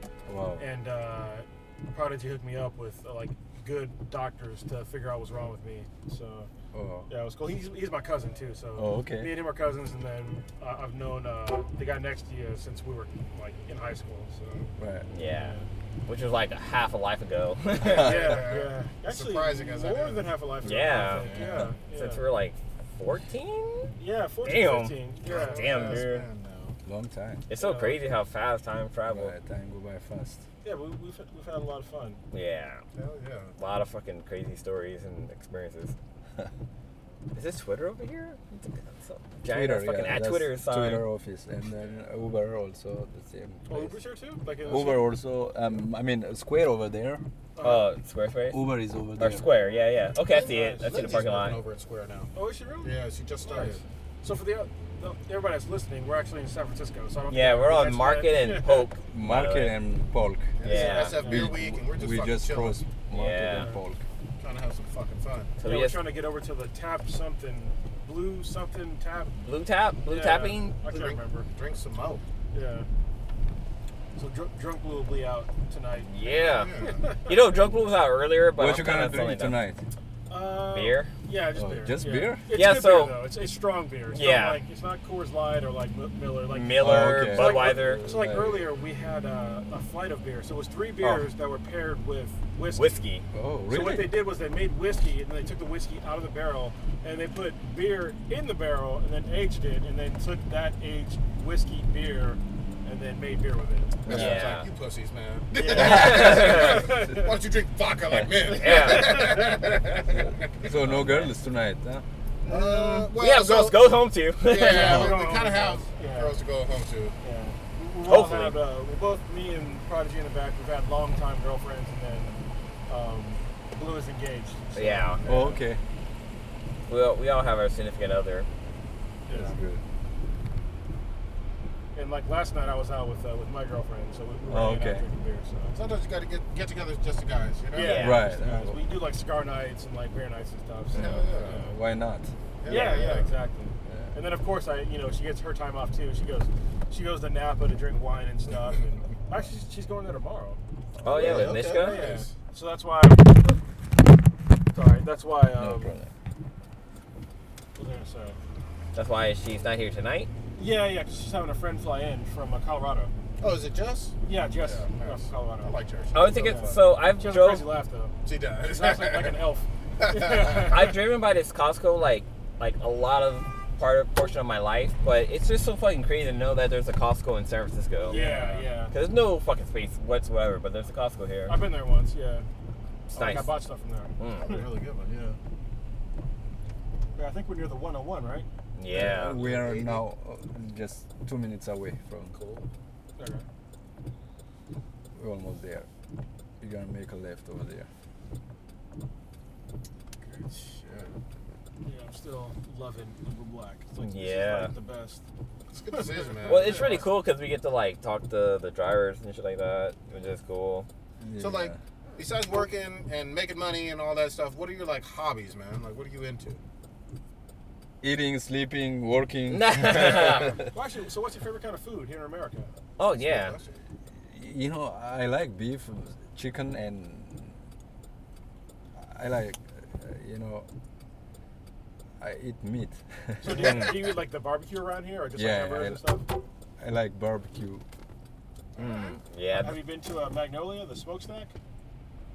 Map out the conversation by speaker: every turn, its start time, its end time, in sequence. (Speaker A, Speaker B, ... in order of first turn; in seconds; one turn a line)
Speaker A: 0.3-0.6
Speaker B: 0.6-6.5
Speaker A: 6.7-7.1
Speaker B: 7.1-14.6
Speaker A: 8.8-9.4
Speaker A: 14.8-15.1
Speaker C: 15.1-18.3
Speaker B: 15.3-15.7
Speaker D: 17.8-21.7
Speaker B: 17.9-22.2
Speaker C: 20.6-21.3
Speaker C: 21.9-26.3
Speaker B: 24.0-26.0
Speaker D: 25.2-26.8
Speaker A: 26.9-27.5
Speaker C: 27.5-29.3
Speaker B: 27.6-28.2
Speaker A: 29.1-30.4
Speaker B: 30.6-32.2
Speaker C: 32.3-32.8
Speaker D: 33.0-33.5
Speaker C: 33.6-36.0
Speaker C: 37.3-41.1
Speaker A: 39.5-43.9
Speaker B: 43.7-45.1
Speaker A: 44.6-47.2
Speaker B: 47.6-47.9
Speaker C: 47.6-48.6
Speaker A: 48.5-49.5
Speaker C: 49.2-51.6
Speaker D: 50.2-52.3
Speaker B: 52.4-58.9
Speaker D: 52.8-53.8
Speaker C: 57.3-59.8
Speaker A: 59.1-64.0
Speaker D: 60.6-62.9
Speaker C: 60.6-61.2
Speaker B: 60.7-61.6
Speaker C: 63.1-63.7
Speaker B: 63.4-63.8
Speaker D: 64.4-65.5
Speaker C: 65.6-66.0
Speaker B: 65.6-69.4
Speaker C: 69.4-70.8
Speaker B: 70.1-71.5
Speaker D: 70.8-72.2
Speaker B: 72.5-72.9
Speaker B: 74.2-76.1
Speaker C: 76.0-79.6
Speaker D: 76.5-77.0
Speaker B: 76.8-77.3
Speaker A: 78.6-79.8
Speaker B: 80.3-93.0
Speaker C: 80.7-81.1
Speaker A: 81.5-82.4
Speaker C: 82.5-83.2
Speaker C: 84.1-84.6
Speaker C: 86.5-88.0
Speaker A: 86.8-88.7
Speaker C: 92.7-93.3
Speaker A: 93.3-94.2
Speaker B: 93.7-104.0
Speaker D: 104.0-110.7
Speaker A: 104.1-104.5
Speaker C: 104.1-104.7
Speaker B: 105.7-107.3
Speaker C: 105.8-106.9
Speaker A: 105.8-106.2
Speaker C: 108.1-109.4
Speaker B: 108.6-109.6
Speaker A: 110.6-112.0
Speaker C: 110.6-111.3
Speaker C: 112.5-115.1
Speaker D: 112.5-117.2
Speaker B: 114.6-116.4
Speaker B: 117.2-125.6
Speaker C: 118.0-118.6
Speaker C: 124.8-125.2
Speaker A: 125.2-125.8
Speaker C: 126.9-128.5
Speaker B: 129.3-129.6
Speaker A: 129.3-129.8
Speaker B: 131.9-135.8
Speaker A: 134.5-135.0
Speaker D: 135.7-138.4
Speaker B: 137.7-141.7
Speaker C: 137.8-138.2
Speaker A: 138.0-138.8
Speaker D: 140.9-141.7
Speaker A: 141.0-142.3
Speaker D: 142.6-143.3
Speaker B: 142.7-150.6
Speaker C: 142.7-143.0
Speaker A: 143.9-144.1
Speaker A: 151.0-151.7
Speaker C: 151.0-152.1
Speaker D: 151.1-152.3
Speaker B: 151.7-153.6
Speaker B: 154.7-156.0
Speaker A: 155.6-156.1
Speaker B: 157.8-158.4
Speaker C: 158.9-160.3
Speaker B: 160.6-163.1
Speaker D: 163.4-166.9
Speaker B: 164.2-165.7
Speaker C: 166.1-167.7
Speaker B: 166.3-171.0
Speaker D: 168.2-169.4
Speaker D: 170.0-170.7
Speaker C: 170.7-178.2
Speaker B: 178.1-178.9
Speaker D: 178.1-178.6
Speaker C: 178.8-181.6
Speaker B: 181.5-182.5
Speaker C: 183.1-183.5
Speaker B: 183.1-184.1
Speaker C: 184.2-184.6
Speaker D: 184.4-185.4
Speaker B: 187.2-188.5
Speaker C: 188.8-189.4
Speaker D: 188.9-190.0
Speaker A: 188.9-192.4
Speaker D: 192.3-192.7
Speaker B: 193.2-193.5
Speaker A: 195.1-195.9
Speaker A: 196.6-197.9
Speaker D: 200.2-201.1
Speaker B: 201.8-205.2
Speaker C: 204.0-204.8
Speaker D: 205.7-207.0
Speaker B: 205.9-207.1
Speaker C: 206.4-210.9
Speaker A: 211.2-211.8
Speaker D: 211.4-216.6
Speaker A: 218.0-220.7
Speaker C: 219.5-220.6
Speaker B: 220.7-222.7
Speaker C: 223.0-223.6
Speaker D: 223.1-223.7
Speaker A: 224.3-227.6
Speaker A: 229.0-230.7
Speaker A: 232.2-234.0
Speaker B: 233.4-236.3
Speaker C: 233.5-233.9
Speaker A: 235.3-236.0
Speaker A: 236.8-237.9
Speaker D: 238.8-239.2
Speaker C: 238.8-239.8
Speaker B: 239.6-241.5